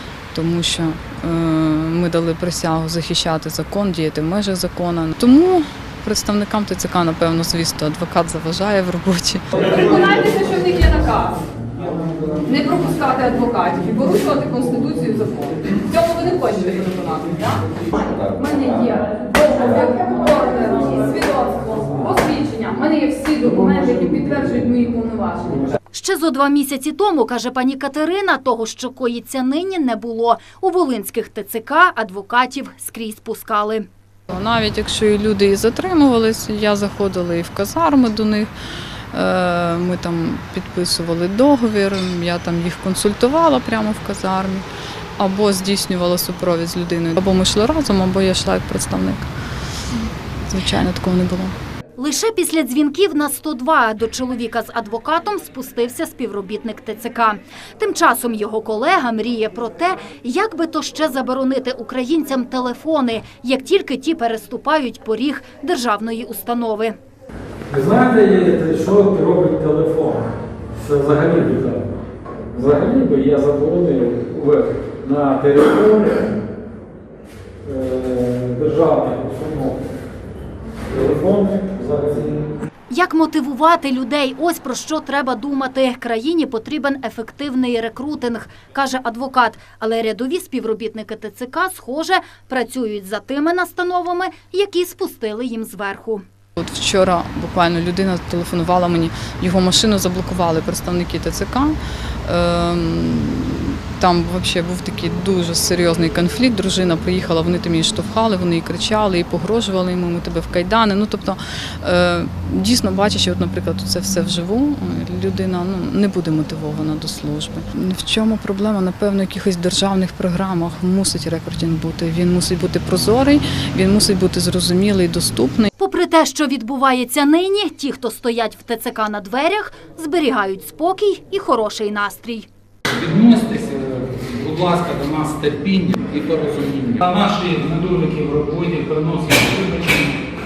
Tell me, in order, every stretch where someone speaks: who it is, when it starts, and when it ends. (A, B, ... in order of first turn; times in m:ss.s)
0:00.3-0:09.6 A
0:09.6-0:11.4 B
0:12.4-0:25.7 B
0:25.9-0:33.9 C
0:34.3-0:38.5 A
0:39.1-0:44.7 A
0:45.2-0:49.3 A
0:50.5-0:51.5 A
0:52.0-1:07.0 C
1:07.7-1:11.9 D
1:12.5-1:16.3 D
1:17.6-1:19.8 D
1:20.9-1:22.5 D
1:22.9-1:36.2 C
1:36.6-2:05.7 A
2:05.8-2:12.5 C
2:13.0-2:20.2 E
2:15.9-2:16.9 D